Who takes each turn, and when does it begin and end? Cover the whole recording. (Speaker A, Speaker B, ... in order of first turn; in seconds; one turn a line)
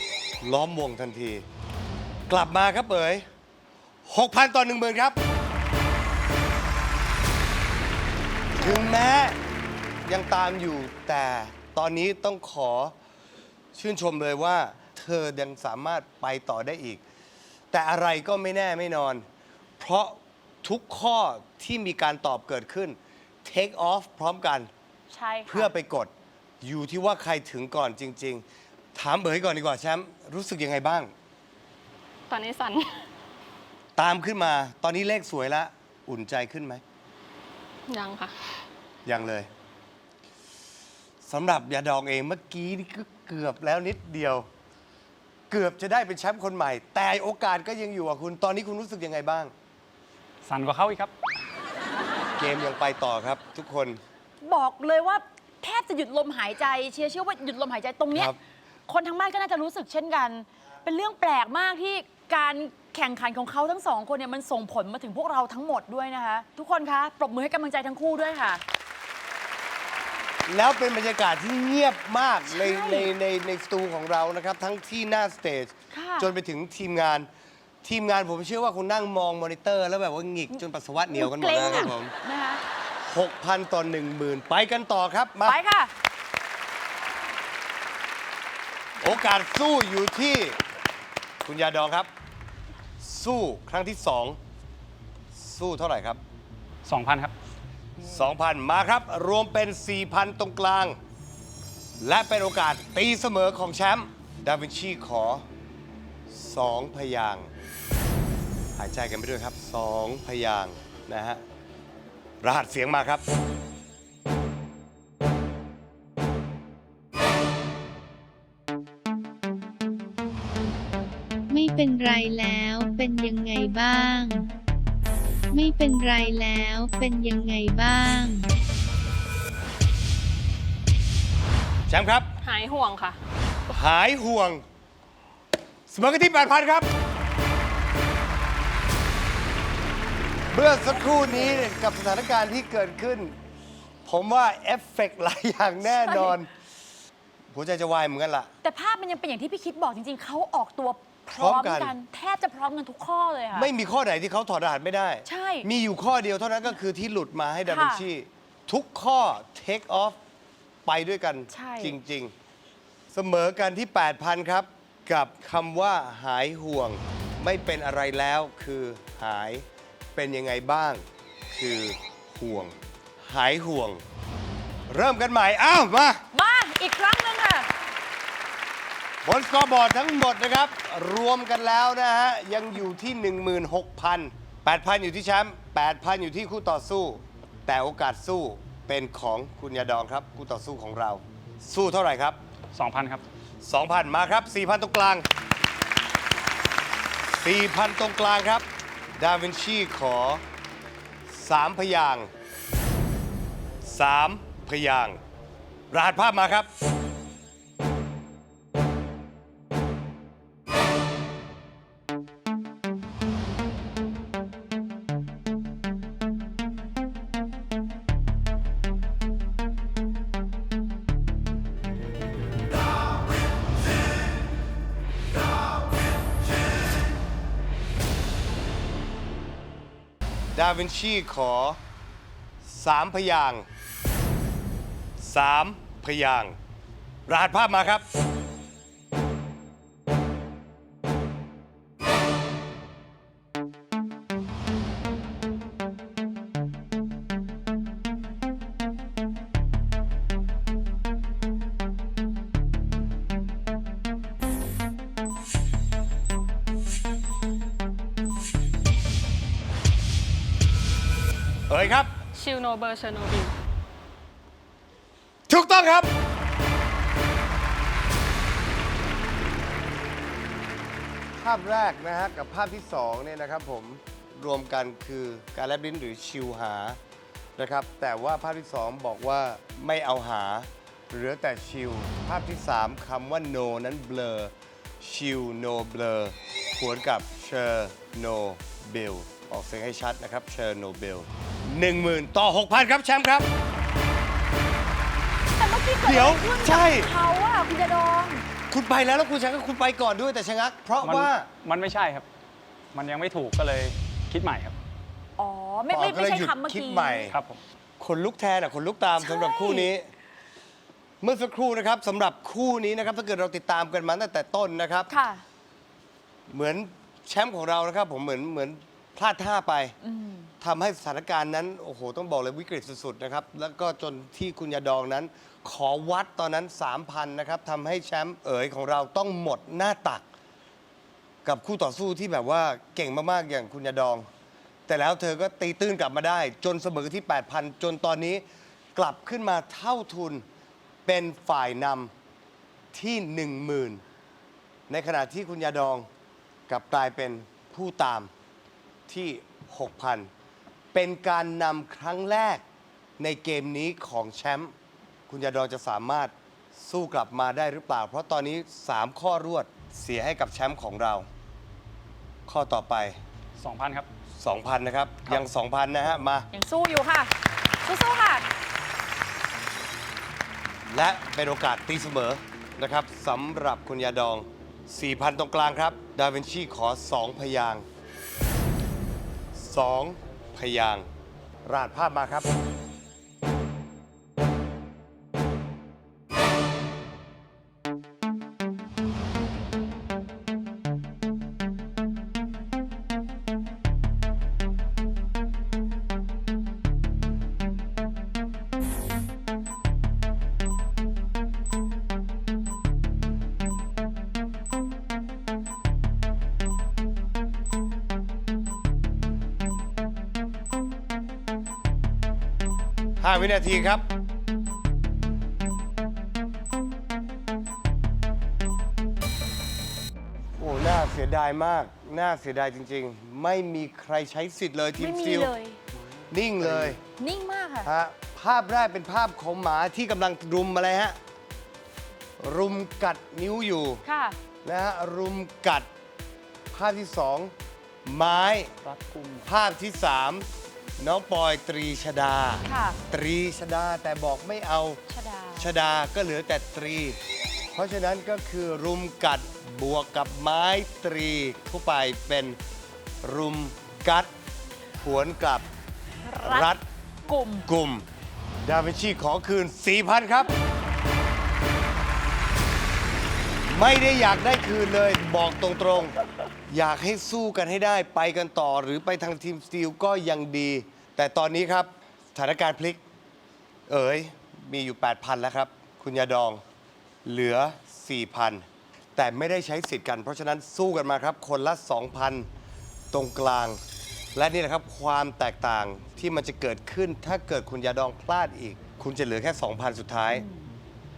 Speaker A: 0.4-1.4
Speaker A: 2.3-3.2
Speaker A: 4.0-5.2
Speaker A: 8.6-9.4
Speaker A: 10.0-12.9
Speaker A: 13.7-17.0
Speaker A: 17.7-19.2
Speaker A: 19.8-24.7
Speaker B: 25.1-25.7
Speaker A: 25.5-28.4
Speaker A: 28.9-31.1
Speaker C: 32.3-33.0
Speaker A: 34.0-36.8
Speaker C: 37.9-38.4
Speaker A: 39.0-39.5
Speaker A: 41.2-44.5
Speaker A: 45.5-49.5
Speaker D: 50.4-51.1
Speaker A: 52.4-54.0
Speaker B: 54.4-58.3
Speaker B: 58.9-68.6
Speaker A: 70.5-77.3
Speaker B: 72.5-73.1
Speaker B: 75.9-76.3
Speaker A: 77.8-82.1
Speaker B: 81.1-82.6
Speaker A: 83.0-85.6
Speaker B: 85.5-85.9
Speaker A: 89.0-90.6
Speaker A: 91.4-92.1
Speaker A: 93.0-94.4
Speaker A: 95.3-96.2
Speaker D: 96.8-97.3
Speaker A: 98.0-101.0
Speaker A: 102.0-105.5
Speaker A: 106.3-107.5
Speaker A: 108.8-111.4
Speaker A: 112.4-113.2
Speaker E: 121.5-124.5
Speaker E: 125.5-128.5
Speaker A: 131.9-132.3
Speaker C: 132.4-133.2
Speaker A: 133.7-134.6
Speaker A: 135.9-136.9
Speaker A: 140.5-143.3
Speaker A: 144.0-146.5
Speaker B: 145.9-146.4
Speaker A: 147.5-148.5
Speaker B: 148.6-153.7
Speaker A: 151.3-151.9
Speaker A: 153.5-160.2
Speaker B: 155.2-155.7
Speaker B: 157.7-158.0
Speaker A: 160.8-162.3
Speaker B: 161.5-161.9
Speaker A: 163.1-174.0
Speaker A: 174.9-176.2
Speaker B: 176.3-177.7
Speaker A: 179.2-192.4
Speaker D: 192.7-193.2
Speaker A: 193.6-195.2
Speaker A: 197.4-200.4
Speaker A: 201.3-202.3
Speaker A: 203.8-205.2
Speaker A: 205.9-206.7
Speaker A: 230.5-231.8
Speaker A: 232.6-233.7
Speaker A: 235.2-236.6
Speaker A: 237.3-238.0
Speaker A: 261.7-262.1
Speaker C: 262.3-263.5
Speaker A: 265.5-266.1
Speaker A: 271.4-277.0
Speaker A: 277.6-293.5
Speaker B: 295.6-298.4
Speaker A: 296.0-297.1
Speaker A: 298.7-301.5
Speaker D: 301.0-302.2
Speaker D: 302.9-304.7
Speaker B: 305.4-307.3
Speaker A: 305.9-307.3
Speaker D: 307.3-307.6
Speaker A: 308.0-310.1
Speaker B: 309.2-309.9
Speaker A: 311.2-315.1
Speaker B: 315.1-315.4
Speaker A: 316.5-319.9
Speaker B: 320.0-320.5
Speaker A: 320.6-330.2
Speaker A: 331.4-334.3
Speaker A: 334.9-338.4
Speaker A: 338.9-340.4
Speaker A: 341.0-342.1
Speaker A: 342.9-344.0
Speaker A: 344.9-346.1
Speaker A: 346.7-348.3
Speaker A: 349.1-350.3
Speaker A: 350.9-352.6
Speaker A: 353.2-354.7
Speaker A: 355.3-361.3
Speaker A: 362.4-363.2
Speaker D: 363.6-364.1
Speaker A: 364.4-366.5
Speaker B: 366.5-368.4
Speaker A: 370.9-377.9
Speaker A: 379.5-381.1
Speaker A: 381.6-382.5
Speaker A: 413.2-414.1
Speaker A: 420.6-425.5
Speaker B: 424.9-425.8
Speaker A: 426.3-427.0
Speaker B: 427.2-427.9
Speaker A: 427.8-431.2
Speaker A: 432.4-434.0
Speaker B: 434.0-434.4
Speaker A: 434.6-435.9
Speaker A: 436.7-437.5
Speaker A: 438.1-438.7
Speaker D: 438.8-439.5
Speaker A: 439.4-440.5
Speaker A: 441.0-445.0
Speaker B: 442.6-443.0
Speaker B: 445.1-445.7
Speaker A: 445.6-447.2
Speaker A: 447.7-452.6
Speaker A: 453.2-454.3
Speaker A: 454.9-455.7
Speaker B: 456.2-456.7
Speaker A: 456.4-456.8
Speaker B: 457.3-457.7
Speaker A: 457.6-458.1
Speaker A: 458.6-460.5
Speaker A: 463.7-466.1
Speaker A: 466.7-473.0
Speaker A: 473.9-476.6
Speaker A: 477.2-482.5
Speaker A: 483.1-483.8
Speaker A: 484.3-490.4
Speaker B: 490.3-490.7